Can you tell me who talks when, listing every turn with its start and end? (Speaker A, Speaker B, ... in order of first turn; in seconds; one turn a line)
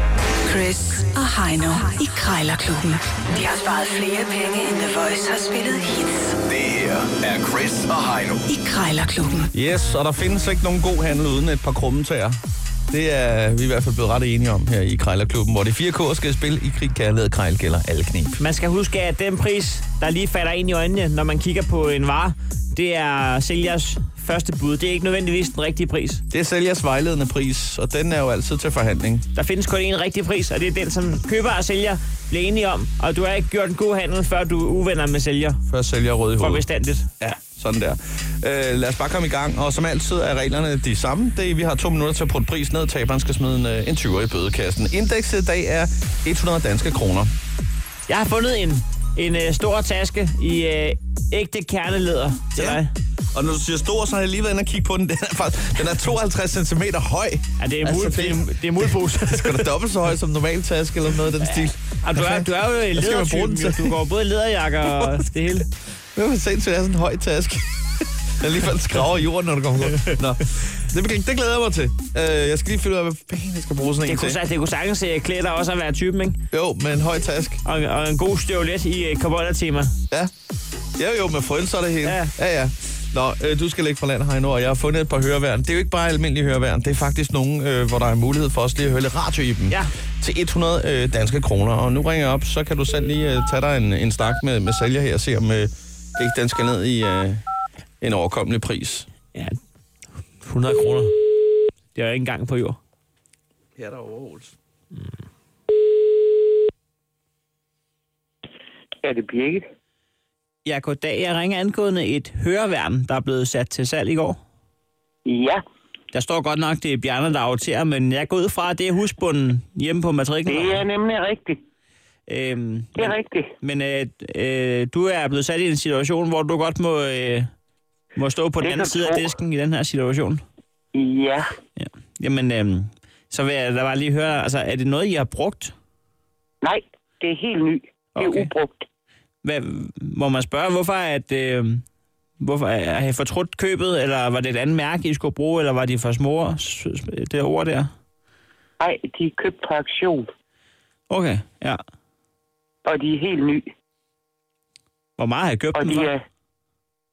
Speaker A: 0.5-6.3
Speaker B: 6.5-8.5
Speaker A: 8.5-9.5
Speaker C: 9.5-12.4
Speaker C: 12.9-18.4
Speaker D: 18.4-26.2
Speaker C: 26.3-29.3
Speaker D: 29.3-35.6
Speaker C: 35.7-36.6
Speaker D: 36.4-37.1
Speaker C: 37.2-47.3
Speaker D: 48.1-52.9
Speaker C: 53.3-64.0
Speaker D: 57.6-59.7
Speaker D: 61.4-65.7
Speaker C: 64.9-65.6
Speaker C: 66.2-67.6
Speaker C: 68.4-74.4
Speaker D: 74.0-76.4
Speaker C: 76.5-77.6
Speaker D: 77.6-80.0
Speaker C: 81.0-97.4
Speaker D: 82.0-82.3
Speaker C: 98.0-99.1
Speaker D: 100.4-101.1
Speaker D: 102.0-102.8
Speaker C: 103.8-104.5
Speaker E: 109.0-109.7
Speaker D: 110.7-114.4
Speaker E: 115.3-115.6
Speaker D: 116.1-120.8
Speaker E: 120.5-121.6
Speaker D: 122.3-127.5
Speaker E: 123.0-123.5
Speaker D: 128.2-130.4
Speaker E: 128.6-129.3
Speaker E: 130.9-131.5
Speaker D: 131.8-135.7
Speaker E: 136.6-138.8
Speaker D: 138.2-138.5
Speaker D: 139.4-141.8
Speaker D: 142.4-147.9
Speaker E: 148.8-150.3
Speaker D: 151.1-151.8
Speaker E: 152.8-153.6
Speaker D: 155.2-156.1
Speaker E: 155.8-156.2